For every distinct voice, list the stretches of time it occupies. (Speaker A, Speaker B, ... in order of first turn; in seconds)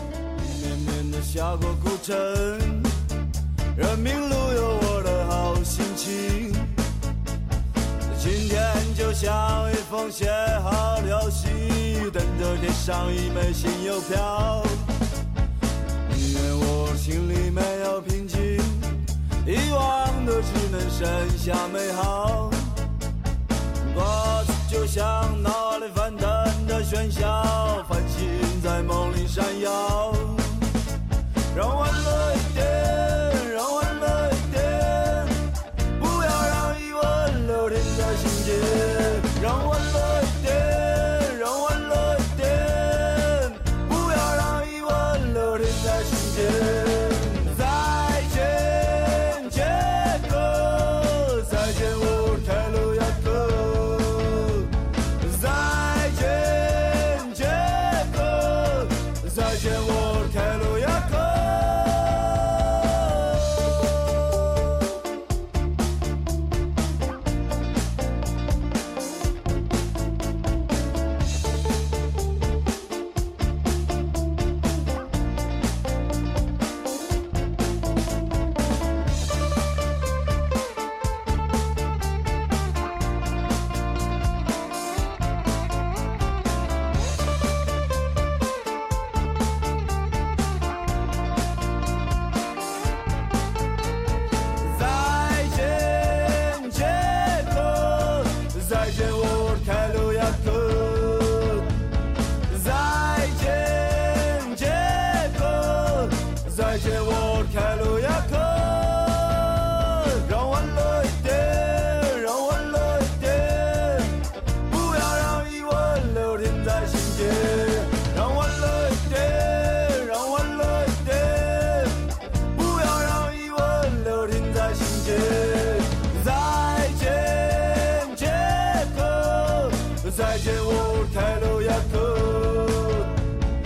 Speaker A: 0.3-3.0, 3.7-6.8, 8.1-14.9, 16.0-22.8, 23.8-30.7, 31.5-35.4, 36.0-64.4, 94.6-101.8, 102.5-133.2